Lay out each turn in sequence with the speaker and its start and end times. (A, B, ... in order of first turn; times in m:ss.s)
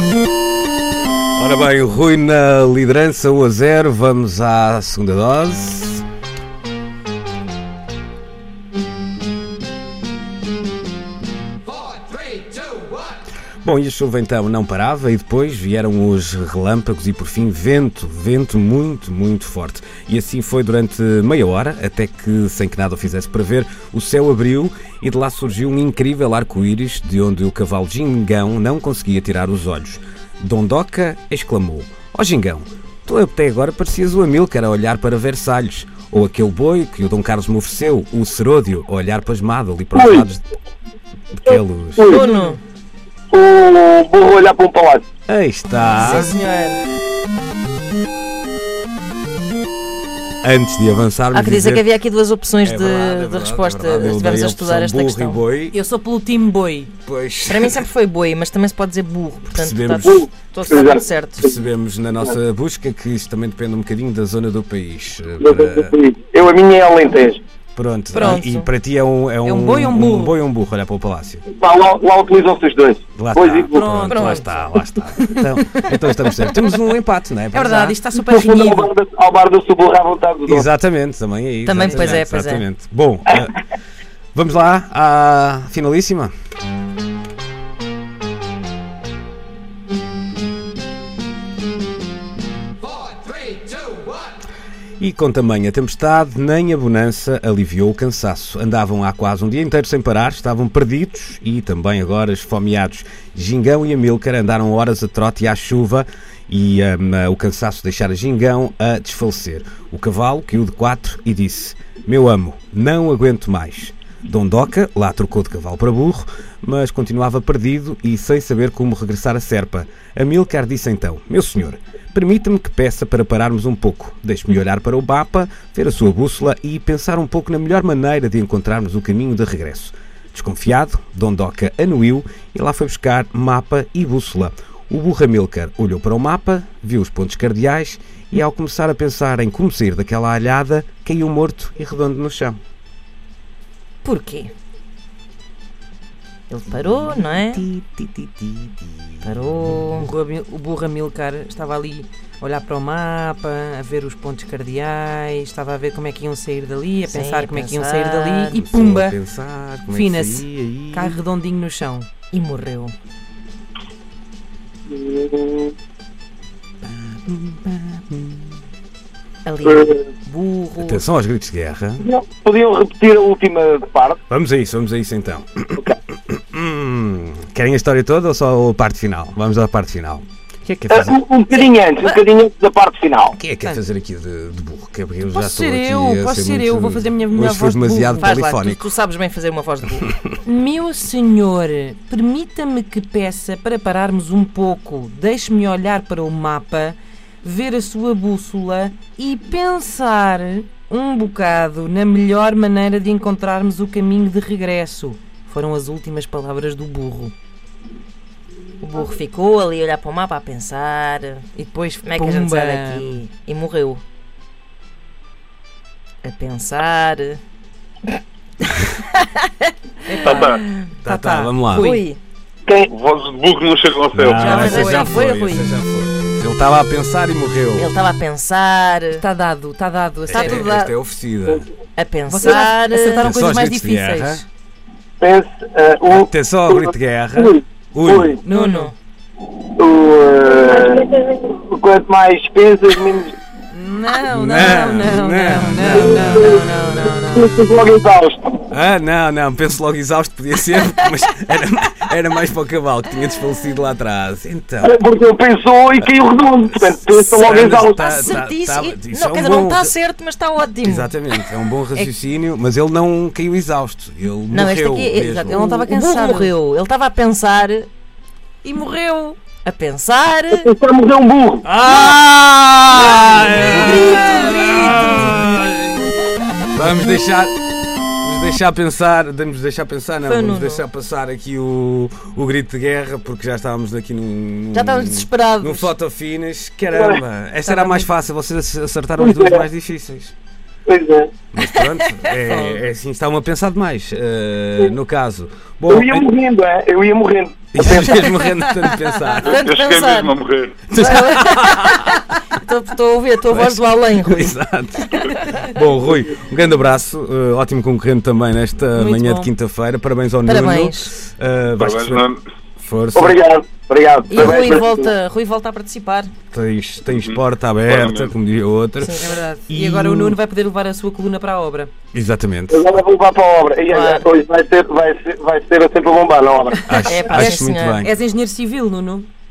0:01.4-0:06.0 A
0:13.6-0:40.4 A
0:39.9-0:40.2 B
0:41.4-0:42.2 A
0:41.5-0:42.3 B
0:42.0-0:42.6 C
0:43.3-0:45.0 B
0:45.3-0:46.3 A
0:45.9-0:46.8 C
0:50.4-0:51.8 A
0:51.3-0:55.4 C
0:52.6-0:55.8 A
0:55.7-0:56.9 D
0:57.0-0:57.8 A
0:57.5-1:01.5 C
0:59.5-1:00.2 A
1:00.0-1:01.4 B
1:01.4-1:06.0 A
1:05.4-1:07.4 B
1:07.8-1:11.4 A
1:08.1-1:08.7 C
1:09.4-1:10.4 D
1:11.5-1:13.9 B
1:13.2-1:18.0 A
1:13.7-1:15.4 D
1:14.0-1:14.4 C
1:17.5-1:18.9 D
1:18.3-1:20.7 B
1:20.4-1:23.6 A
1:21.6-1:22.6 C
1:24.3-1:26.3 A
1:35.0-2:22.6 A
2:24.0-2:24.5 C
2:26.5-2:27.7 C
2:27.0-2:28.9 A
2:29.2-2:30.1 C
2:30.0-2:39.2 D
2:37.0-2:38.6 C
2:38.5-2:41.2 A
2:39.9-2:42.1 D
2:42.3-2:42.9 C
2:44.9-2:45.7 B
2:46.8-2:48.5 A
2:49.4-2:51.0 C
2:49.7-2:50.0 B
2:50.8-2:52.1 A
2:52.0-2:54.2 B
2:54.3-3:00.2 A
3:00.8-3:01.2 A
3:00.9-3:03.3 B
3:01.5-3:02.2 C
3:03.3-3:08.9 A
3:05.2-3:08.3 D
3:08.2-3:10.2 C
3:10.4-3:27.3 D
3:28.8-3:31.4 C
3:31.5-3:33.2 D
3:32.0-3:34.0 C
3:36.2-3:37.4 C
3:38.6-3:40.9 C
3:40.0-3:42.0 D
3:40.2-3:40.6 E
3:41.0-3:41.9 A
3:41.8-3:42.2 C
3:42.9-3:44.6 E
3:44.1-3:47.9 A
3:44.4-3:45.2 D
3:44.4-3:45.7 C
3:47.8-3:49.2 C
3:49.2-3:50.7 D
3:50.3-3:51.7 A
3:50.3-3:50.9 C
3:52.0-3:53.3 C
3:52.3-3:54.4 D
3:53.2-3:54.4 A
3:55.2-3:58.4 B
3:56.1-3:58.4 A
3:58.4-3:58.9 D
3:58.5-3:58.9 C
3:59.7-4:03.3 B
4:03.7-4:07.6 D
4:04.3-4:06.7 A
4:06.1-4:06.6 B
4:07.2-4:08.6 B
4:08.7-4:15.0 A
4:14.8-4:18.1 B
4:17.2-4:19.9 A
4:17.4-4:21.4 C
4:20.8-4:25.7 A
4:24.5-4:27.9 C
4:25.4-4:26.5 D
4:28.6-4:29.4 D
4:29.6-4:30.7 C
4:30.5-4:31.6 B
4:31.6-4:36.1 A
4:32.9-4:35.0 C
4:33.4-4:35.4 D
4:36.7-4:37.6 A
4:38.2-4:50.3 A
4:40.2-4:40.8 C
4:44.7-4:45.9 C
4:46.9-4:47.2 B
4:47.6-4:48.1 D
4:49.2-4:49.6 B
4:50.8-4:51.3 B
4:51.5-4:56.3 A
4:52.5-4:52.8 D
4:55.9-4:58.4 B
4:57.7-4:59.7 A
4:59.4-5:00.8 E
4:59.4-5:00.4 C
5:00.9-5:02.2 A
5:00.9-5:05.7 C
5:03.5-5:12.2 A
5:08.9-5:09.5 D
5:10.4-5:11.1 C
5:11.8-5:12.4 E
5:12.8-5:13.4 A
5:13.1-5:15.1 B
5:14.3-5:16.3 C
5:16.5-5:20.4 A
5:17.1-5:18.3 E
5:19.0-5:19.3 C
5:19.2-5:21.9 D
5:22.1-5:22.9 A
5:22.7-5:27.3 B
5:23.9-5:24.3 C
5:26.8-5:28.2 A
5:26.9-5:29.3 D
5:27.1-5:28.0 C